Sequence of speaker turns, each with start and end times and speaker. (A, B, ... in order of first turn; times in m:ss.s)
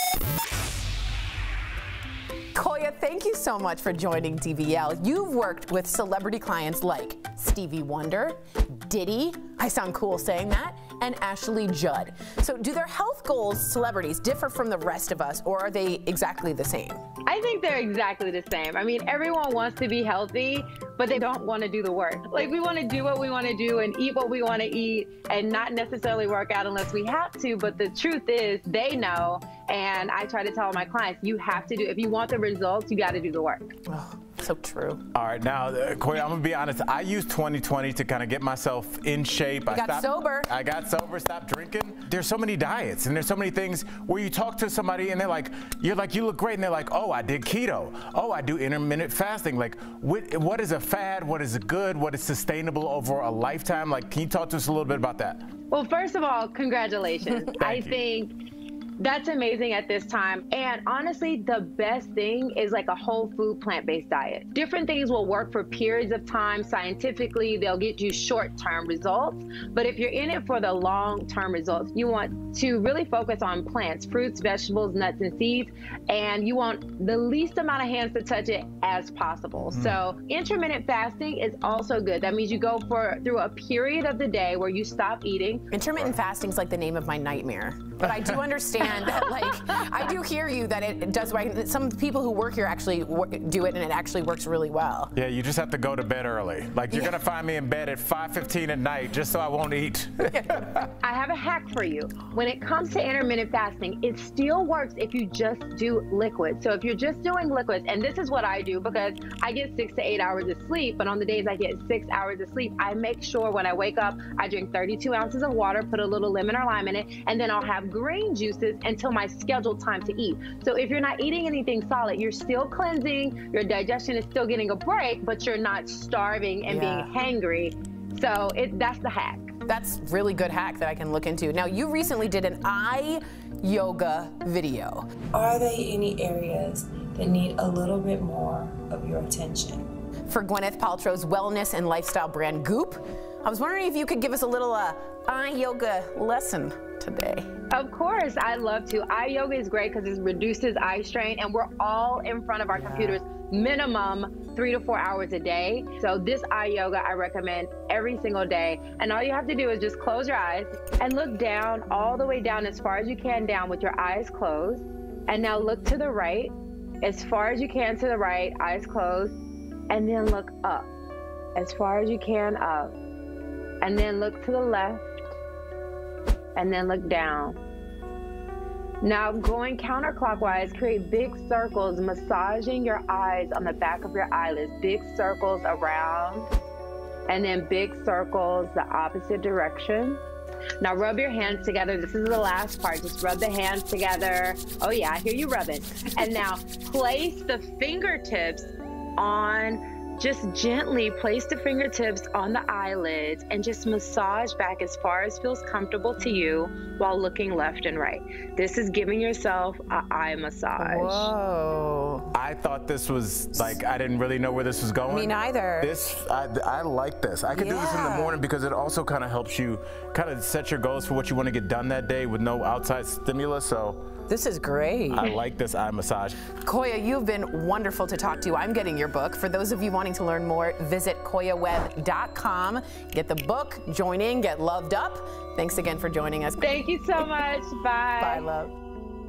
0:02.5-0:17.0 A
0:17.3-0:33.8 B
0:33.9-0:35.0 A
0:35.1-0:55.4 C
0:39.7-0:40.5 A
0:55.7-0:58.4 B
0:57.6-0:57.9 C
0:59.0-1:25.7 B
1:25.7-1:35.1 A
1:35.2-1:40.9 C
1:36.9-1:37.2 A
1:41.0-2:09.6 B
2:06.7-2:07.1 A
2:09.7-2:15.0 A
2:15.4-2:19.8 D
2:20.3-2:27.5 A
2:27.7-2:49.4 B
2:49.9-2:50.9 B
2:51.6-2:53.0 B
2:53.8-2:55.2 B
2:56.6-2:57.6 B
2:59.0-3:06.5 B
3:07.3-3:10.2 B
3:10.8-3:31.3 B
3:30.8-3:32.3 A
3:32.4-3:44.0 C
3:35.1-3:36.0 A
3:37.5-3:38.4 A
3:44.3-3:45.4 A
3:45.1-3:46.4 C
3:46.5-3:57.2 A
3:56.6-3:58.5 B
3:58.2-3:58.7 A